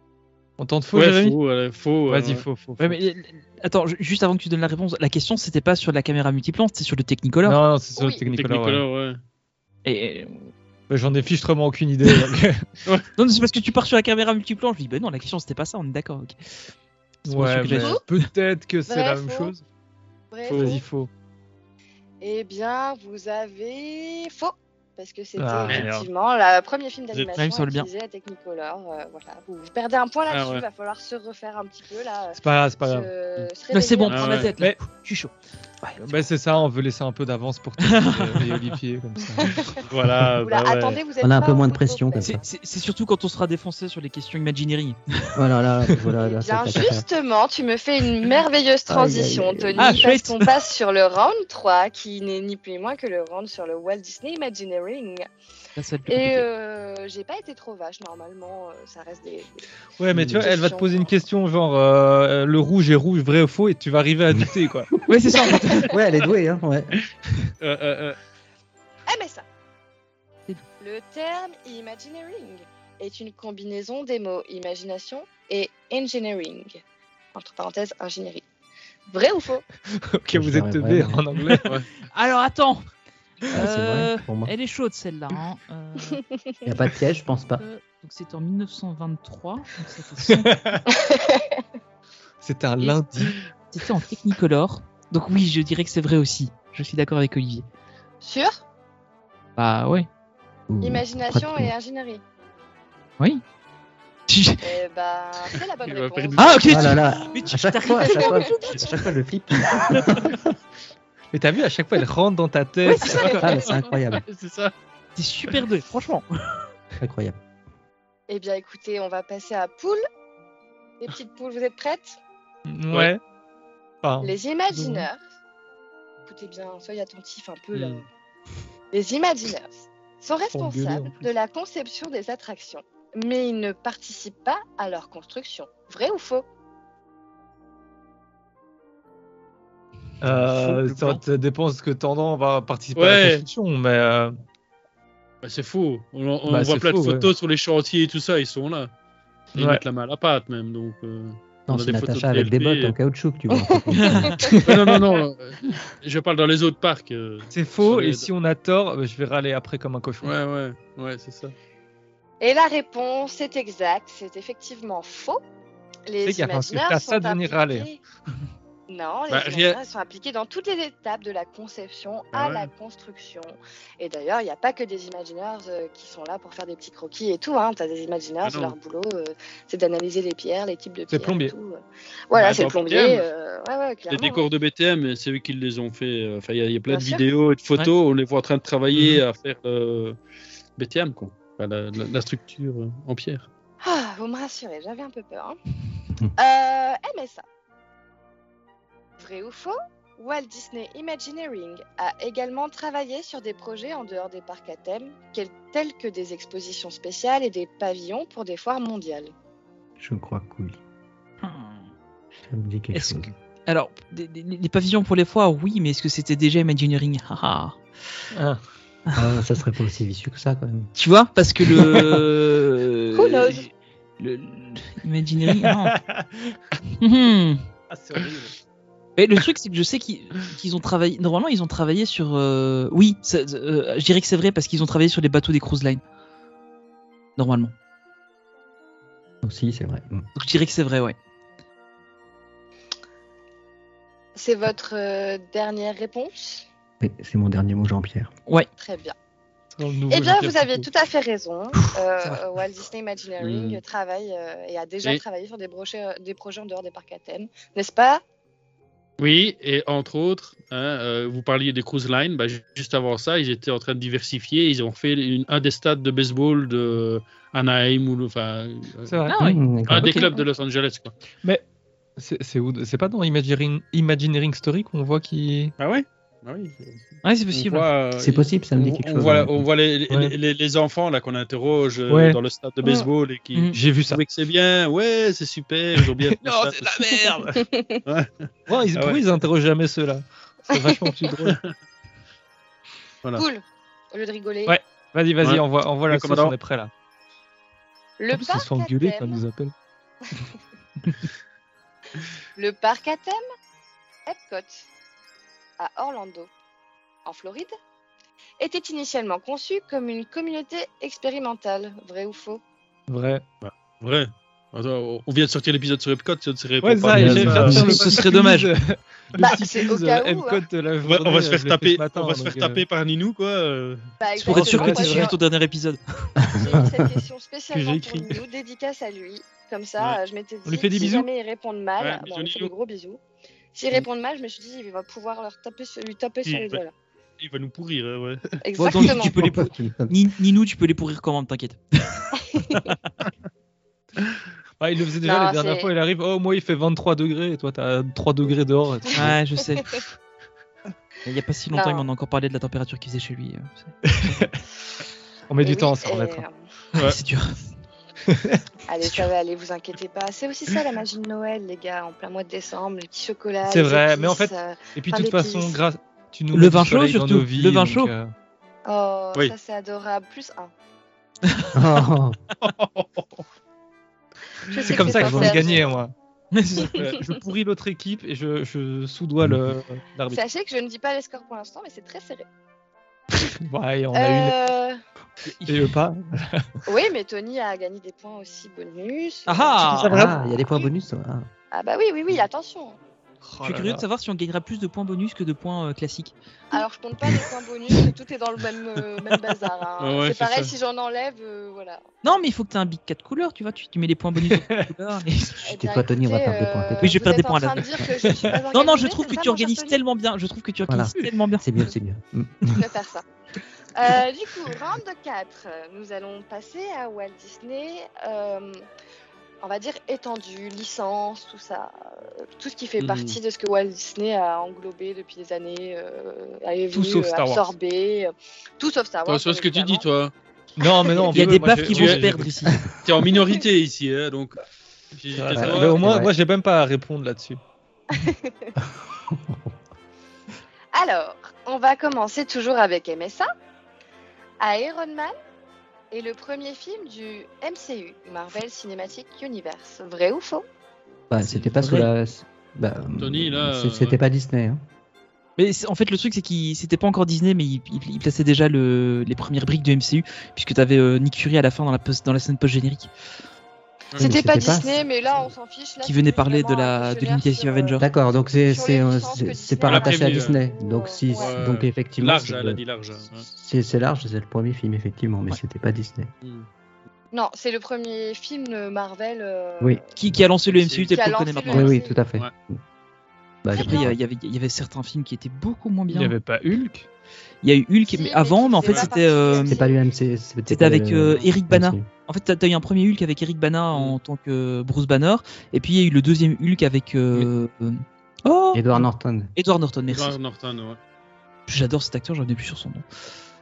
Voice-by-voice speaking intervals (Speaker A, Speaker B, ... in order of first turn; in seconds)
Speaker A: 0.6-1.4, 2.1-3.0, 7.4-8.8, 10.9-12.7, 17.3-19.6, 20.5-21.1, 25.4-26.1, 32.4-33.1, 36.0-39.6, 60.0-64.9, 80.0-81.7, 90.3-90.8, 92.4-93.4, 111.3-113.3, 122.7-123.2, 124.0-125.1, 130.5-131.3, 140.2-144.3, 146.5-147.3, 149.6-149.8, 154.5-154.9, 157.5-160.3, 166.2-167.9, 181.1-181.6, 218.3-218.6, 225.5-226.6, 227.9-228.5, 249.8-250.9, 269.1-269.5, 272.2-275.7, 280.1-280.4, 282.1-282.4, 283.7-284.2, 286.3-287.6, 288.7-291.6, 294.7-296.9, 298.3-299.7, 313.1-313.4, 316.8-322.8, 324.4-325.3, 327.7-328.3, 330.7-331.3, 344.8-349.4, 354.1-354.6, 355.5-356.4, 358.3-358.6, 363.6-368.3, 374.7-376.1, 377.2-380.4, 383.5-384.6, 385.6-386.7, 389.5-390.4, 393.4-394.0, 404.4-404.9, 426.9-427.7, 430.8-432.5, 435.3-437.6, 486.1-487.1
Speaker B: 0.9-2.4, 8.3-9.2, 20.5-20.8, 30.3-30.6, 34.1-34.5, 39.9-41.0, 67.6-68.2, 105.8-106.5, 113.7-114.7, 127.7-128.0, 143.0-143.5, 145.4-148.9, 149.6-152.9, 154.7-158.3, 160.2-161.5, 169.3-169.8, 172.3-172.7, 178.4-178.8, 182.3-183.3, 184.1-190.2, 190.8-193.5, 253.4-253.8, 259.2-269.1, 269.9-271.1, 275.8-286.9, 288.1-289.2, 291.4-291.7, 295.4-296.6, 313.6-317.8, 321.1-324.0, 332.0-332.7, 336.4-336.8, 337.4-338.6, 372.6-373.4, 400.0-400.7, 423.0-423.4, 429.3-430.3, 431.9-432.3, 433.0-434.6, 435.1-436.1, 453.2-454.2, 469.9-470.6, 471.4-473.4, 476.4-476.7, 480.7-481.1, 488.8-489.1, 500.1-501.0
Speaker C: 2.8-7.6, 9.8-10.5, 13.2-16.4, 17.2-18.3, 27.4-27.9, 33.7-36.2, 37.8-38.7, 42.2-45.3, 49.8-50.5, 55.8-56.5, 65.1-65.9, 82.1-82.9, 83.5-86.2, 87.6-90.5, 93.7-97.7, 99.6-100.1, 104.3-104.6, 106.4-109.0, 109.9-110.2, 112.9-113.5, 115.2-116.6, 140.4-141.2, 154.0-154.3, 211.4-211.8, 212.9-217.8, 220.9-226.0, 227.0-227.6, 229.2-236.0, 237.4-237.7, 240.4-241.2, 269.3-270.3, 277.2-277.9, 317.6-318.7, 324.4-326.0, 338.8-342.3, 349.1-349.9, 351.2-354.5, 357.0-357.6, 366.5-368.1, 371.5-372.0, 376.5-376.9, 385.5-385.9, 389.8-390.1, 393.6-396.3, 402.2-405.6, 407.0-407.9, 408.7-411.6, 431.3-432.8, 451.5-452.1, 455.6-463.1, 466.0-468.1, 480.1-482.0, 483.7-486.4, 487.6-489.8, 490.7-500.4, 501.7-503.1
Speaker D: 8.0-8.2, 17.8-18.0, 18.9-19.5, 20.3-20.9, 22.2-34.5, 39.3-39.8, 40.4-42.5, 46.2-55.3, 56.1-59.6, 60.3-61.2, 69.1-69.5, 70.8-76.8, 77.3-78.5, 79.1-79.7, 90.9-91.6, 98.2-98.6, 100.8-102.2, 104.6-107.3, 107.9-108.5, 113.1-113.4, 118.3-120.0, 121.0-122.2, 124.2-125.2, 126.3-128.1, 128.9-136.4, 153.6-154.6, 162.4-165.4, 166.1-168.0, 168.9-184.4, 186.9-187.2, 193.8-195.6, 196.4-197.4, 199.2-209.3, 223.1-223.7, 244.3-246.7, 248.8-249.2, 250.1-258.2, 282.8-283.1, 287.5-288.0, 290.7-291.3, 293.4-294.8, 298.2-299.4, 302.6-303.4, 304.3-304.9, 305.8-306.5, 307.2-307.7, 308.6-312.6, 319.4-320.6, 324.2-325.4, 326.6-333.2, 333.7-336.9, 338.6-339.3, 342.5-342.8, 345.2-345.9, 351.7-352.1, 355.6-356.6, 358.9-365.8, 368.9-370.7, 374.7-376.0, 380.3-382.5, 384.1-385.0, 386.9-390.9, 391.7-393.0, 396.7-402.0, 405.6-410.0, 412.7-413.2, 413.9-418.9, 419.6-430.0, 430.9-431.3, 438.1-438.8, 440.9-443.5, 444.6-445.3, 446.1-450.6, 464.1-468.0, 468.7-471.6, 477.3-480.0, 481.1-482.2, 483.7-484.1, 488.1-490.0
Speaker E: 41.2-42.4, 45.4-47.0, 48.9-50.1, 60.1-60.4, 65.9-67.0, 80.3-81.2, 83.5-84.5, 86.7-87.6, 100.7-101.7, 106.7-110.3, 113.4-114.2, 117.0-117.4, 151.7-154.3, 210.0-210.8, 212.4-213.3, 219.2-220.9, 239.4-240.2, 247.0-248.3, 269.4-270.3, 278.2-279.6, 317.1-317.9, 326.4-327.2, 338.9-340.2, 371.7-372.4, 375.0-375.6, 390.0-391.5, 405.6-407.2, 410.9-412.8, 435.5-436.3, 439.3-439.7, 451.3-454.8, 464.2-465.0, 468.0-472.8, 473.4-476.3, 481.7-482.8, 483.6-484.2, 489.6-492.1, 498.7-499.5